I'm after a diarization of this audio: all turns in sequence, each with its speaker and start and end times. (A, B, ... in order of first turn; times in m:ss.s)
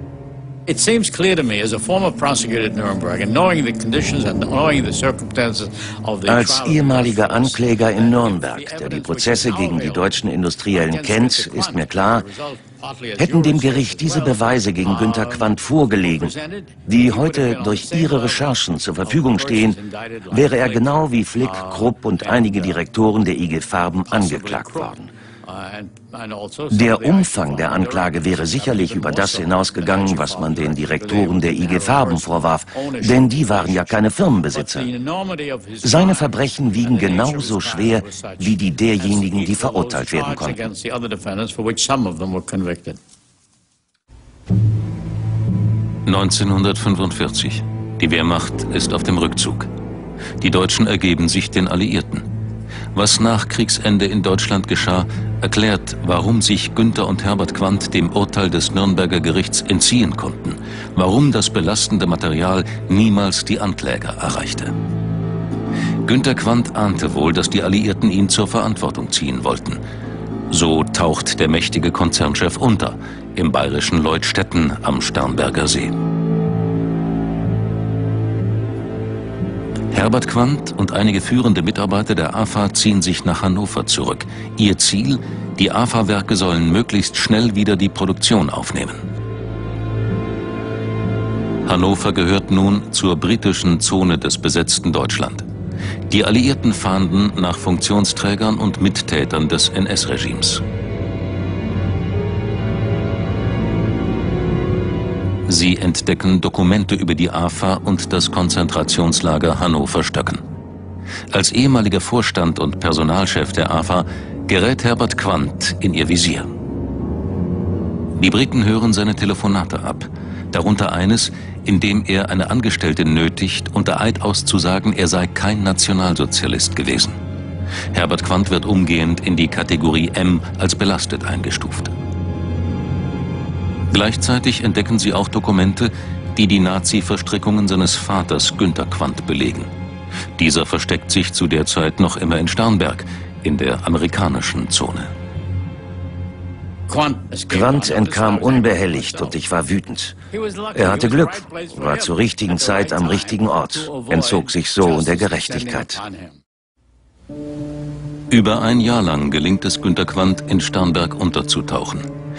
0:00.7-0:22.8 A
0:06.3-0:12.3 B
0:13.2-0:16.4 B
0:16.9-0:19.8 B
0:20.3-0:25.1 B
0:24.1-0:43.0 A
0:26.7-0:34.9 B
0:35.8-0:40.6 B
0:46.1-0:49.7 C
0:50.4-0:52.3 C
0:53.0-1:04.7 C
1:06.1-1:09.8 C
1:10.5-1:16.0 C
1:19.9-1:29.0 C
1:31.7-1:35.5 C
1:36.1-1:40.6 C
1:45.5-1:50.4 C
1:51.3-1:56.5 C
1:58.2-2:07.2 C
2:07.9-2:11.9 C
2:13.9-2:19.7 C
2:20.4-2:25.1 C
2:26.9-2:29.4 A
2:27.5-2:30.1 B
2:30.3-2:36.4 A
2:30.8-2:36.0 B
2:38.3-2:42.1 C